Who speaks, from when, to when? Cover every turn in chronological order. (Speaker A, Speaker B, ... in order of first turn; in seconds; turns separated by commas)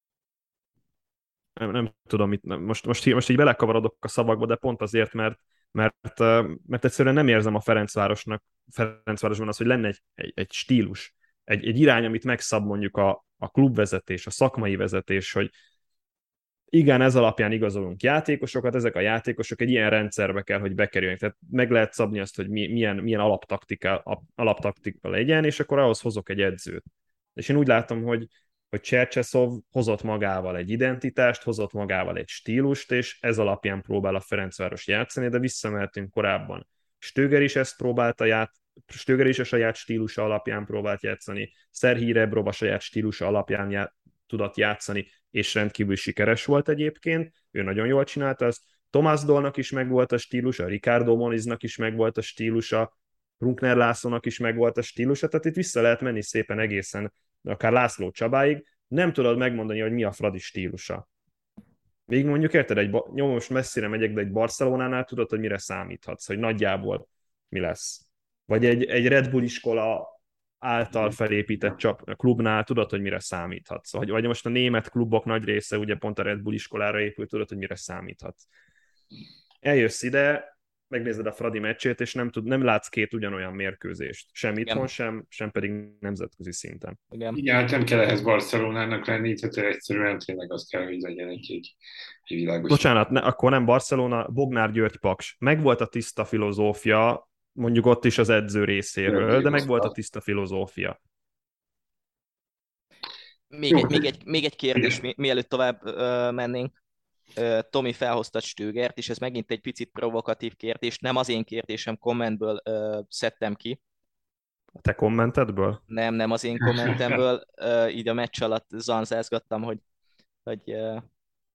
Speaker A: 1.6-15.5, Speaker A: 16.7-61.0, Speaker A: 62.1-78.5, Speaker A: 79.6-87.0, Speaker B: 87.1-87.4, Speaker C: 87.3-91.7, Speaker C: 92.3-92.9, Speaker A: 92.7-101.0, Speaker C: 99.1-99.9, Speaker B: 103.5-106.7, Speaker C: 103.7-104.0, Speaker B: 107.4-113.8, Speaker A: 114.8-115.8, Speaker B: 115.9-119.8, Speaker B: 120.5-121.0